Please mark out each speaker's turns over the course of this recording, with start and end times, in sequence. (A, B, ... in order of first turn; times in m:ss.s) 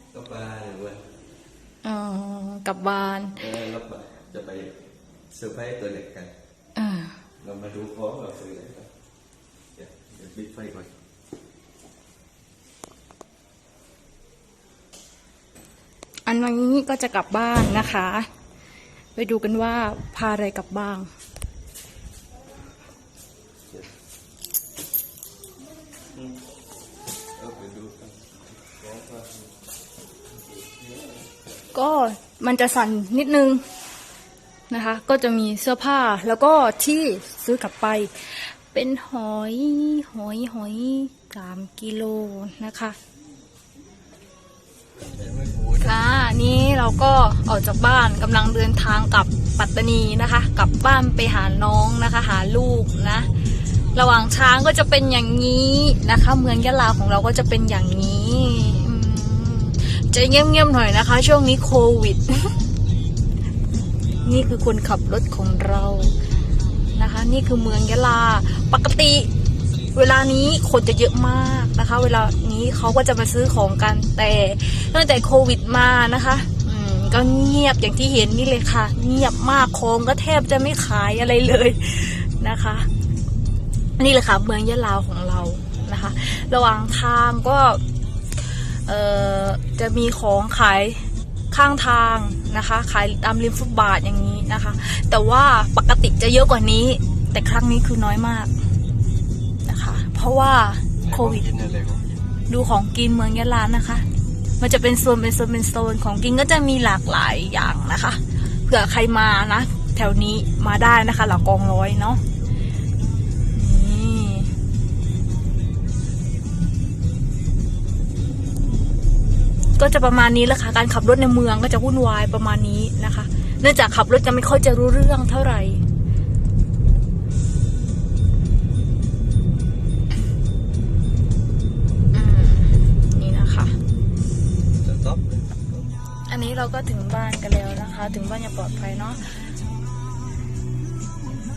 0:00.1-0:01.0 A
0:01.8-0:03.4 B
0:03.4-0:04.7 A
0:05.3-0:06.3 A
0:06.8-0:07.2 B
0:07.4-0:08.9 A
0:09.8-0:10.9 A
0:16.2-0:18.3 B
0:19.1-0:21.1 B
0:27.4-0:29.5 A
0:30.6-0:31.2 A
0:31.7-0:33.6 B
0:34.7-0:43.0 B
0:45.0-0:45.9 A
0:45.8-0:53.3 B
0:53.9-1:02.6 B
1:04.2-1:06.1 B
1:06.9-1:09.3 B
1:09.9-1:22.9 B
1:24.0-1:27.8 B
1:28.4-1:38.5 B
1:39.6-1:41.5 B
1:41.0-1:42.0 A
1:42.5-1:44.0 B
1:44.6-1:52.2 B
1:53.5-1:54.5 B
1:59.8-2:05.8 B
2:12.1-2:13.8 B
2:14.7-2:15.9 A
2:16.3-2:19.5 B